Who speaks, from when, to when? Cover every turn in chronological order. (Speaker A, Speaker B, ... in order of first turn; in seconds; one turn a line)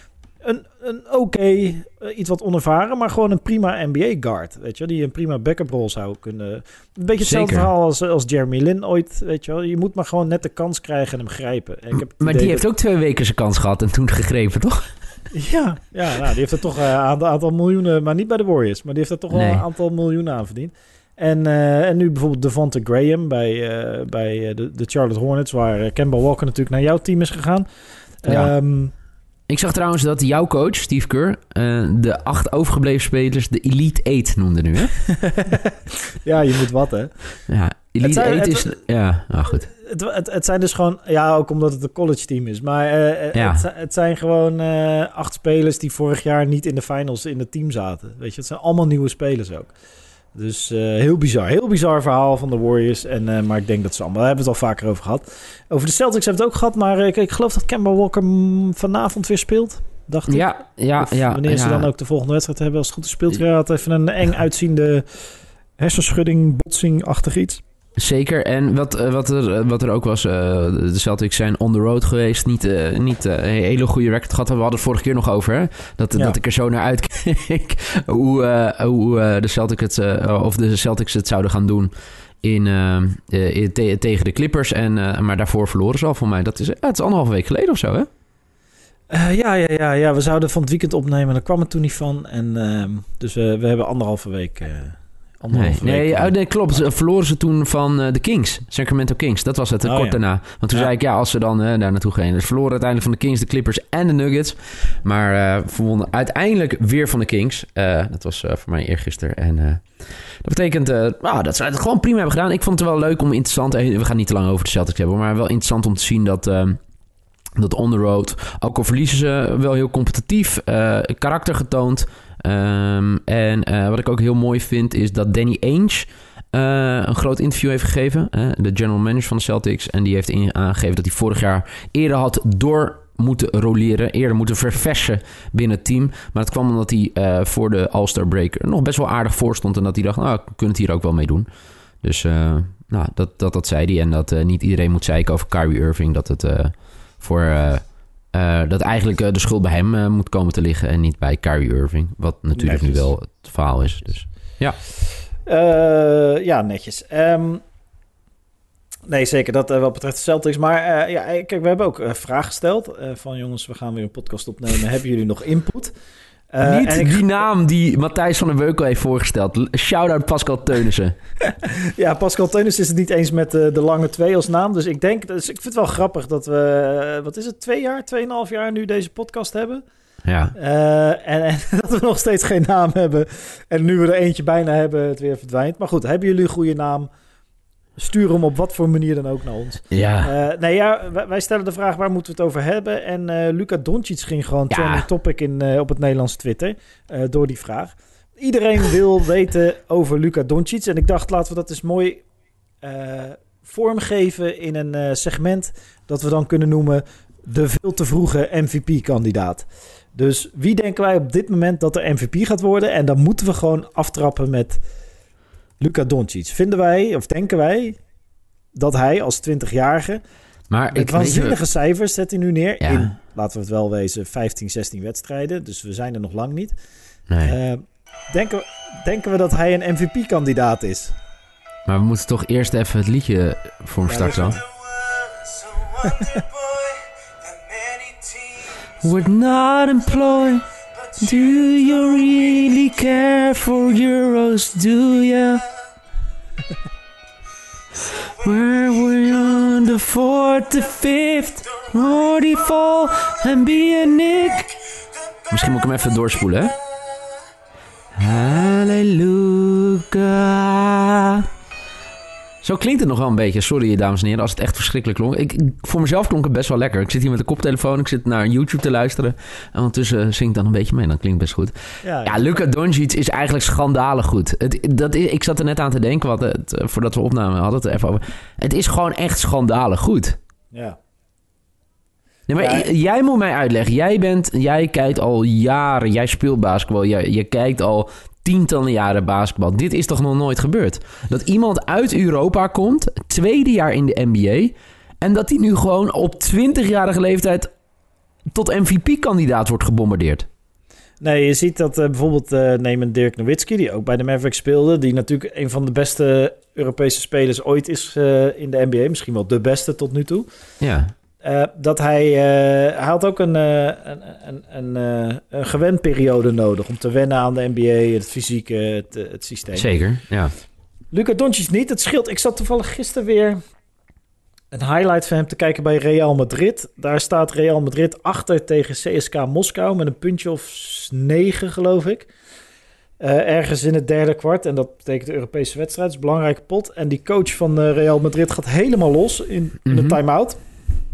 Speaker A: 0.4-12.7
Speaker B: 7.2-7.7
Speaker B: 11.9-14.9
Speaker A: 15.3-27.7
Speaker B: 19.3-19.6
Speaker A: 28.2-28.9
Speaker B: 28.3-28.5
Speaker B: 29.5-35.0
Speaker A: 35.1-37.4
Speaker B: 37.5-39.7
Speaker A: 38.0-38.8
Speaker A: 39.5-49.7
Speaker B: 43.4-43.6
Speaker A: 50.3-67.6
Speaker B: 60.3-61.9
Speaker B: 68.0-81.9
Speaker B: 82.4-88.1
Speaker A: 89.1-96.8
Speaker B: 95.5-116.8
Speaker A: 99.8-100.2
Speaker B: 117.6-141.5
Speaker B: 142.0-154.8
Speaker A: 152.6-153.2
Speaker A: 155.4-157.6
Speaker A: 159.1-165.9
Speaker A: 166.5-167.4
Speaker B: 166.6-171.2
Speaker A: 171.6-179.8
Speaker B: 180.2-180.5
Speaker A: 180.6-187.1
Speaker A: 188.0-202.2
Speaker B: 189.9-190.3
Speaker B: 194.7-195.1
Speaker A: 202.8-214.8
Speaker A: 215.8-218.0
Speaker A: 218.8-220.2
Speaker B: 220.7-221.6
Speaker A: 220.9-226.8
Speaker B: 222.8-223.1
Speaker B: 227.3-227.6
Speaker A: 227.4-231.2
Speaker B: 231.9-234.6
Speaker A: 234.1-234.6
Speaker A: 236.0-236.4
Speaker B: 239.0-245.6
Speaker B: 248.4-254.8
Speaker B: 255.5-256.7
Speaker B: 258.1-261.5
Speaker B: 262.6-280.4
Speaker A: 272.0-272.5
Speaker B: 282.5-297.7
Speaker A: 282.6-282.9
Speaker B: 298.5-300.5
Speaker A: 301.2-310.5
Speaker B: 310.8-311.1
Speaker A: 311.4-319.9
Speaker B: 319.8-320.5
Speaker A: 321.1-323.6
Speaker A: 324.7-332.3
Speaker A: 333.2-340.6
Speaker B: 339.9-340.2